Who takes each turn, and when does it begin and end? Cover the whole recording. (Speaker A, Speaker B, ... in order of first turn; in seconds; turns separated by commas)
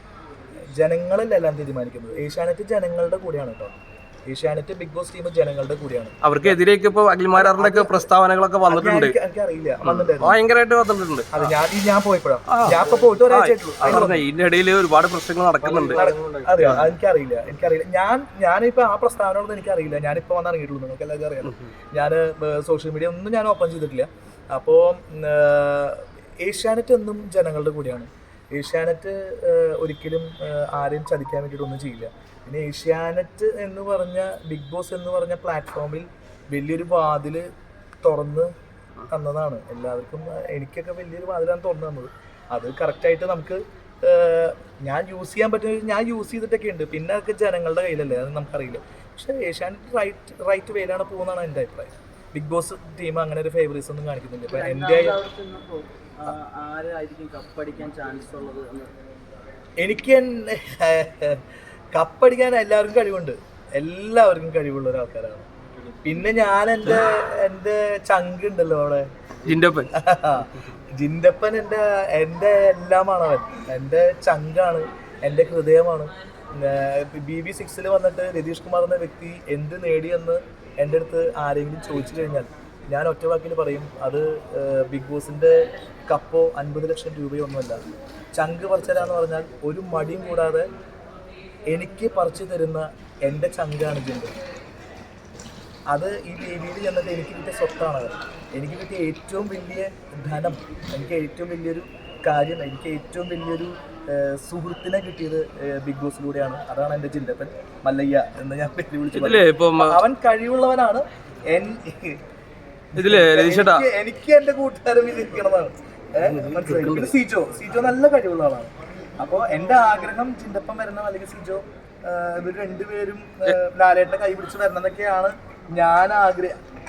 Speaker A: 0.7-3.7, Speaker A: 4.3-6.6, Speaker B: 6.2-9.2, Speaker A: 7.3-8.1, Speaker A: 8.7-10.4, Speaker B: 9.8-11.5, Speaker A: 11.3-14.2, Speaker B: 12.5-16.0, Speaker C: 15.6-16.8, Speaker A: 15.9-37.5, Speaker B: 16.6-16.9, Speaker A: 38.0-38.5, Speaker A: 39.0-55.2, Speaker C: 54.5-58.9, Speaker A: 59.8-65.5, Speaker C: 65.8-66.2, Speaker A: 66.0-69.1, Speaker B: 69.5-69.9, Speaker A: 69.9-87.8, Speaker A: 88.3-90.7, Speaker A: 91.7-94.4, Speaker A: 95.9-112.2, Speaker B: 109.1-110.0, Speaker A: 112.9-126.6, Speaker B: 113.0-113.9, Speaker B: 116.2-117.1